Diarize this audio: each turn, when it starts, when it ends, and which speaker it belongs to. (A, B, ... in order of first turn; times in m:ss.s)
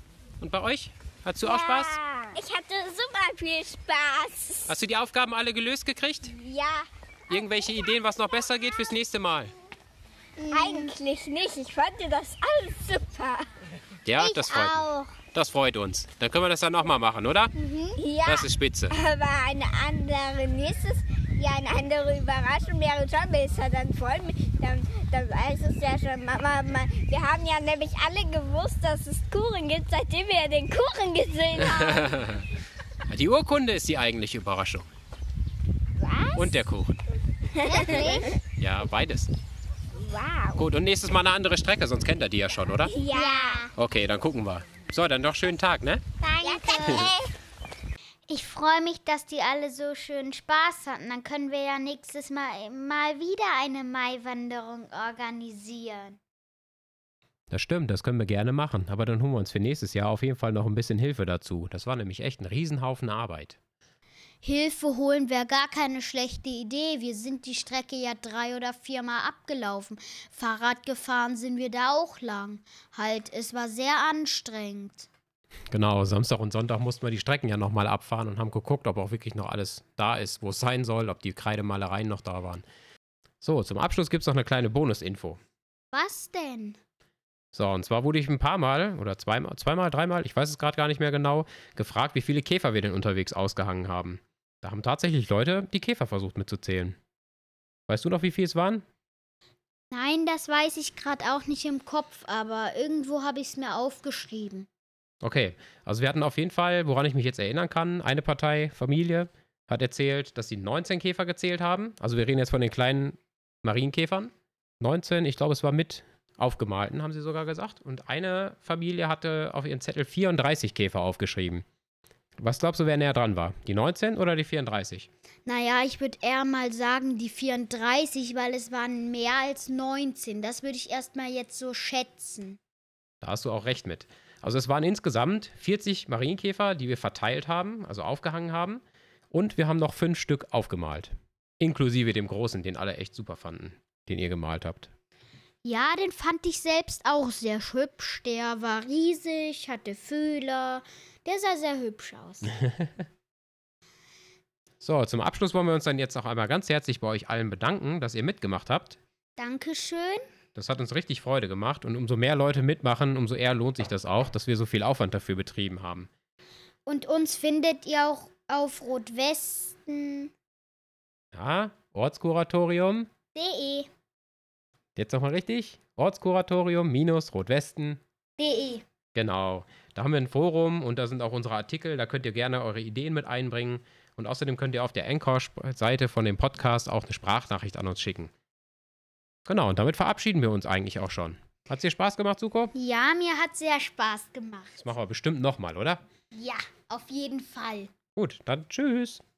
0:00.4-0:02.0 A
0:01.4-0:04.7 B
0:04.7-0:06.3 A
0:06.4-0:06.9 B
0:07.3-0:09.5 A
0:10.4-0:10.9 C
0:10.5-0:13.4 B
0:14.1-0:17.5 A
0:14.2-0:15.0 C
0:17.6-0:18.0 C
0:18.0-0:32.2 B
0:18.2-0:19.0 A
0:31.6-0:32.5 A
0:33.1-0:34.9 A
0:36.0-0:36.6 B
0:36.4-0:37.0 A
0:37.6-0:38.3 B
0:37.7-0:38.3 C
0:38.6-0:39.3 A
0:40.0-0:40.6 B
0:40.6-0:43.0 A
0:42.9-0:43.7 B
0:43.1-0:43.7 C
0:43.8-0:46.0 A
0:46.3-0:47.3 B
0:46.4-0:47.2 C
0:46.8-0:47.1 A
0:48.3-0:56.2 C
0:57.5-1:03.6 A
1:04.4-1:15.1 C
1:15.7-1:22.6 A
1:23.4-1:25.4 A
1:25.9-1:26.8 C
1:27.5-1:37.0 A
1:37.9-1:38.8 A
1:39.9-1:44.7 C
1:45.2-2:01.6 A
2:02.4-2:05.1 A
2:05.5-2:12.6 C
2:13.2-2:24.9 A
2:25.6-2:32.5 C
2:34.8-2:39.0 A
2:39.4-2:40.2 C
2:40.6-2:46.1 A
2:46.9-2:50.3 C
2:51.4-2:53.1 A
2:53.3-2:53.9 C
2:55.0-2:58.0 A
2:58.4-2:58.8 C
2:59.2-3:08.3 A
3:09.5-3:12.7 A
3:12.7-3:14.9 C
3:14.8-3:16.0 A
3:16.3-3:17.9 C
3:18.2-3:19.2 A